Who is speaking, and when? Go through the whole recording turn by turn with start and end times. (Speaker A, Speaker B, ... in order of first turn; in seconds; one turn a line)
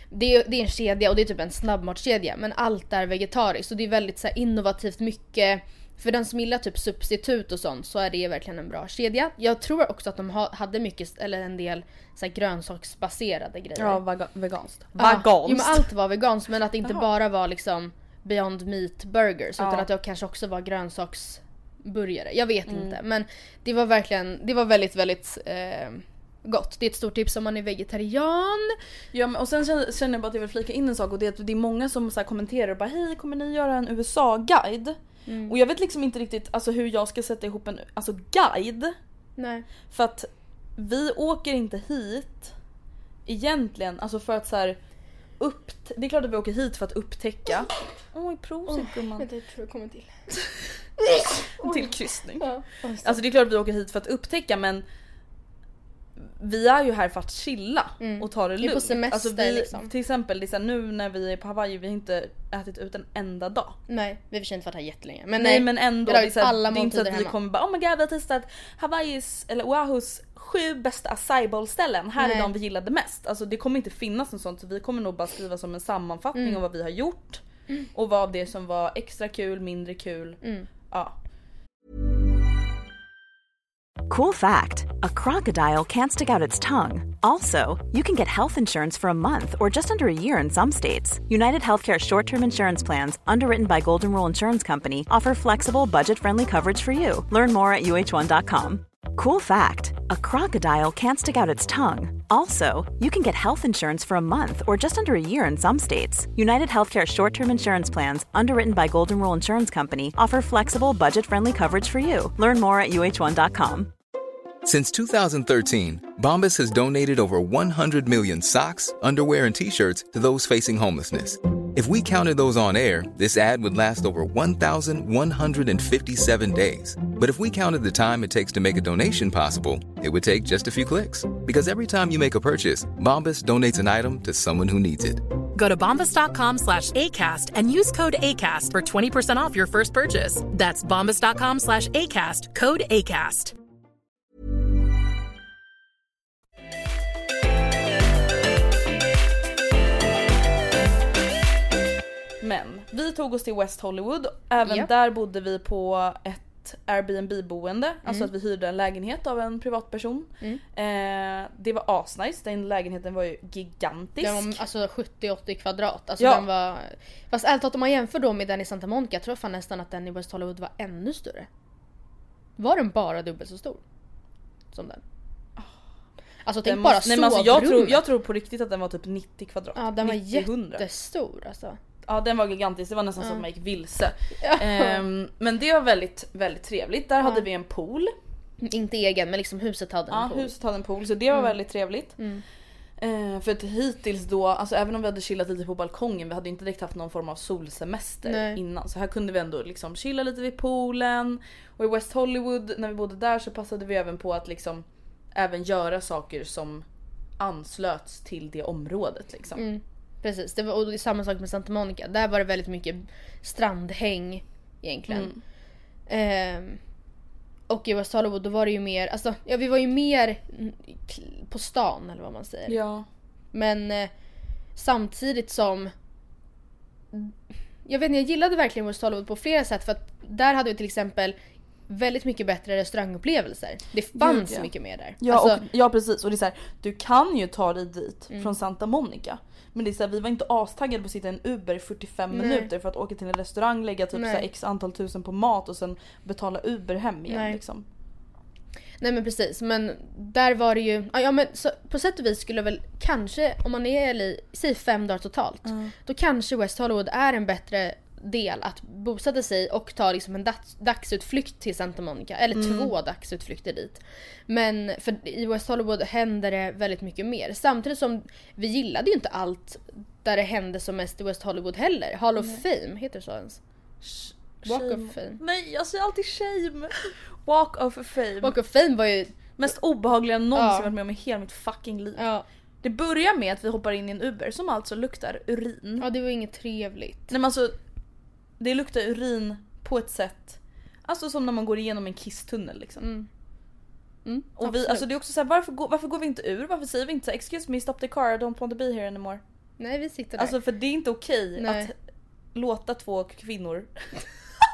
Speaker A: 0.1-14.0
Speaker B: 13.8-15.9
Speaker A: 15.0-28.8
Speaker B: 19.6-19.9
Speaker B: 22.7-23.0
Speaker B: 29.1-39.0
Speaker A: 35.3-35.5
Speaker A: 39.4-39.7
Speaker B: 39.9-42.5
Speaker B: 43.3-44.8
Speaker B: 45.4-49.3
Speaker A: 48.7-50.1
Speaker A: 51.1-53.2
Speaker B: 51.1-52.5
Speaker B: 53.0-54.9
Speaker B: 56.2-63.8
Speaker A: 58.0-59.9
Speaker A: 63.9-67.3
Speaker B: 65.4-81.2
Speaker A: 72.2-72.5
Speaker A: 76.3-76.6
Speaker A: 80.4-80.7
Speaker C: 84.1-113.9
Speaker D: 114.7-135.2
Speaker E: 135.6-143.5
Speaker B: 152.4-164.6
Speaker A: 164.2-171.5
Speaker B: 166.2-166.5
Speaker A: 172.6-173.8
Speaker A: 174.7-175.0
Speaker A: 176.5-178.0
Speaker B: 176.7-180.8
Speaker A: 179.8-181.8
Speaker B: 182.1-188.1
Speaker A: 184.4-185.0
Speaker A: 188.6-190.5
Speaker B: 190.1-192.2
Speaker A: 192.2-192.4
Speaker B: 193.0-206.9
Speaker A: 198.3-198.6
Speaker B: 207.4-209.7
Speaker A: 209.6-215.3
Speaker B: 215.1-215.4
Speaker A: 216.1-216.8
Speaker A: 217.7-222.8
Speaker B: 222.7-223.1
Speaker A: 223.5-224.1
Speaker A: 224.8-225.9
Speaker A: 227.9-231.4
Speaker A: 231.9-235.6
Speaker B: 234.2-247.8
Speaker A: 242.3-242.7
Speaker A: 244.2-244.4
Speaker A: 247.3-247.6
Speaker A: 249.0-273.6
Speaker B: 255.7-255.9
Speaker B: 262.5-262.9
Speaker B: 272.4-272.6
Speaker B: 274.0-278.6
Speaker A: 274.7-275.4
Speaker A: 278.4-279.6
Speaker B: 279.6-282.2
Speaker A: 280.6-280.9
Speaker A: 282.2-282.5
Speaker B: 282.8-286.1
Speaker A: 286.0-287.3
Speaker B: 287.3-287.8
Speaker B: 288.6-293.1
Speaker A: 293.0-293.3
Speaker A: 294.2-295.0
Speaker B: 294.6-299.4
Speaker A: 299.8-300.5
Speaker B: 300.4-301.9
Speaker A: 301.6-301.9
Speaker B: 302.6-304.1